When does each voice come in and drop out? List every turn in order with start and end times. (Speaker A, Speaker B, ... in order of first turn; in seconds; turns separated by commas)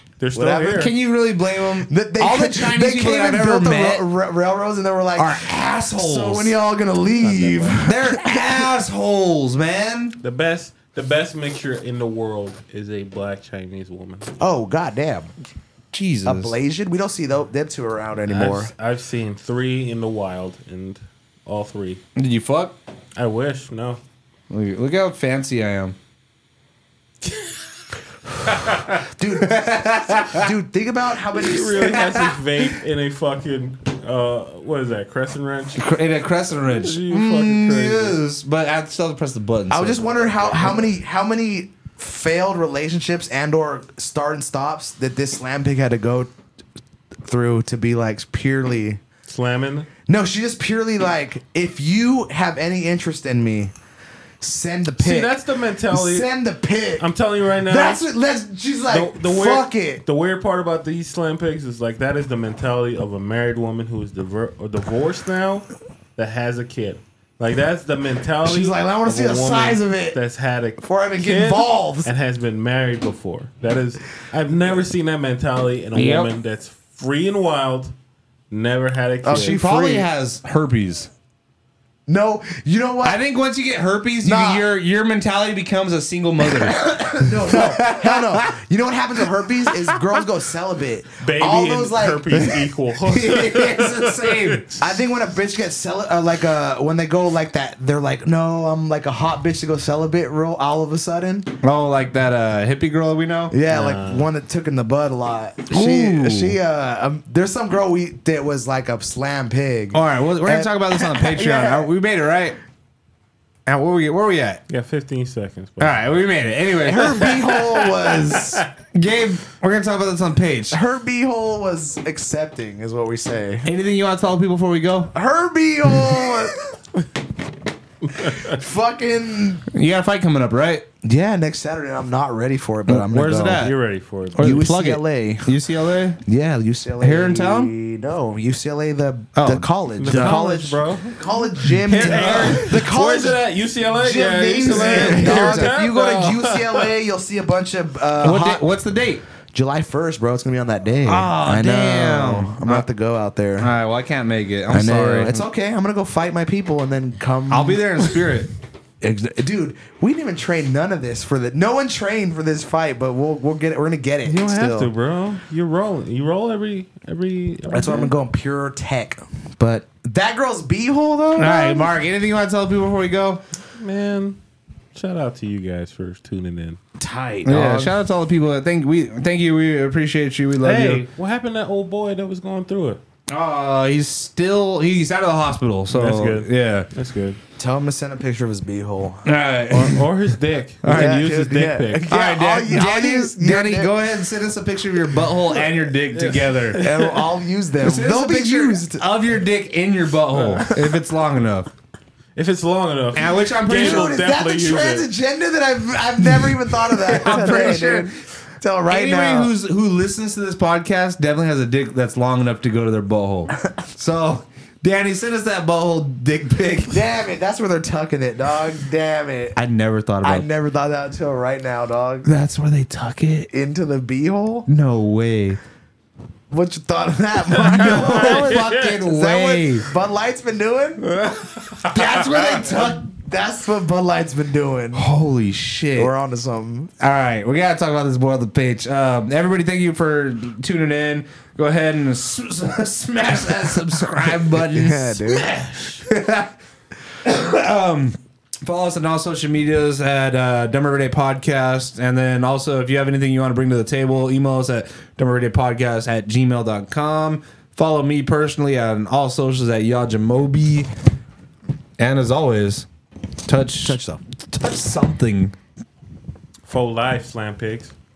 Speaker A: 0.2-0.9, Speaker B: 0.3-0.8, Speaker C: 0.7-4.0, Speaker B: 1.9-8.7, Speaker C: 5.2-6.5, Speaker A: 7.2-7.8, Speaker C: 7.8-10.2, Speaker A: 10.2-14.3, Speaker B: 14.4-15.3, Speaker C: 15.9-16.6, Speaker B: 16.2-18.7, Speaker A: 18.3-22.0, Speaker C: 22.2-22.8, Speaker A: 23.2-24.0, Speaker C: 24.5-26.0, Speaker A: 27.2-27.6, Speaker B: 29.0-32.1, Speaker C: 29.4-30.5, Speaker A: 31.4-35.9, Speaker C: 31.9-32.3, Speaker C: 35.8-40.9, Speaker A: 36.7-38.2, Speaker B: 39.7-46.3, Speaker B: 47.2-49.0, Speaker A: 49.3-49.9, Speaker B: 50.1-53.7, Speaker B: 54.4-57.1, Speaker A: 55.0-56.3, Speaker A: 57.0-58.1, Speaker B: 57.7-60.0, Speaker A: 58.9-77.9, Speaker B: 68.5-70.2, Speaker B: 70.8-72.1, Speaker C: 76.0-76.3, Speaker A: 78.5-79.6, Speaker B: 79.2-80.1, Speaker C: 79.4-81.1, Speaker B: 82.1-83.2, Speaker C: 83.0-88.5, Speaker B: 84.2-84.7, Speaker B: 86.6-92.5, Speaker C: 89.8-90.1, Speaker A: 91.2-94.8, Speaker C: 93.0-94.6, Speaker B: 94.8-101.5, Speaker C: 101.6-103.5, Speaker B: 103.5-111.9, Speaker A: 103.7-104.3, Speaker C: 105.7-106.6, Speaker C: 109.9-112.6, Speaker C: 113.7-114.6, Speaker A: 114.7-116.0, Speaker C: 115.8-117.3, Speaker B: 116.8-118.6, Speaker A: 117.3-118.7, Speaker C: 118.9-120.8, Speaker B: 120.7-123.7, Speaker C: 123.6-125.1, Speaker B: 125.1-127.1, Speaker C: 125.9-126.3, Speaker A: 128.0-128.6, Speaker B: 128.2-129.7, Speaker C: 129.7-130.9, Speaker B: 131.0-133.7, Speaker C: 132.9-133.8, Speaker A: 133.6-134.6, Speaker C: 134.3-136.2, Speaker B: 134.4-135.6, Speaker B: 136.2-143.4, Speaker C: 137.0-137.7, Speaker C: 139.4-140.5, Speaker A: 140.0-141.2, Speaker C: 141.8-142.7, Speaker A: 141.9-146.9, Speaker B: 144.0-148.6, Speaker C: 144.7-145.7, Speaker C: 148.2-149.2, Speaker B: 149.5-153.7, Speaker C: 151.1-152.9, Speaker C: 153.6-155.5, Speaker B: 154.7-158.1, Speaker C: 157.5-158.5, Speaker B: 159.0-164.9, Speaker A: 164.2-168.1, Speaker B: 167.7-171.9, Speaker C: 171.4-173.4, Speaker A: 173.8-174.4, Speaker A: 174.9-176.8, Speaker B: 177.0-177.9, Speaker C: 177.4-181.0, Speaker A: 180.6-183.0, Speaker C: 183.3-186.9, Speaker A: 185.9-187.4, Speaker B: 187.6-189.3, Speaker C: 189.2-190.1, Speaker A: 189.7-192.1, Speaker C: 190.8-191.3, Speaker B: 190.9-193.9, Speaker C: 192.1-196.8, Speaker A: 196.1-197.2, Speaker B: 196.8-199.0, Speaker C: 197.8-201.7, Speaker A: 200.3-200.7, Speaker A: 202.4-205.1, Speaker C: 203.1-204.1, Speaker B: 203.7-209.5, Speaker C: 206.2-208.1, Speaker C: 208.9-217.0, Speaker B: 216.9-219.6, Speaker C: 219.6-220.5, Speaker B: 220.2-222.3, Speaker C: 222.2-223.5, Speaker B: 223.5-224.7, Speaker C: 224.7-225.6, Speaker B: 226.5-231.2, Speaker C: 227.6-229.9, Speaker A: 227.6-229.0, Speaker A: 231.0-232.7, Speaker B: 231.7-235.1, Speaker C: 232.0-232.4, Speaker C: 234.9-236.1, Speaker B: 236.0-236.9, Speaker C: 237.0-246.6, Speaker B: 244.7-245.5, Speaker A: 245.3-246.1, Speaker C: 247.2-260.9, Speaker C: 262.0-262.9, Speaker C: 263.5-265.6, Speaker B: 263.8-264.2, Speaker A: 266.7-267.9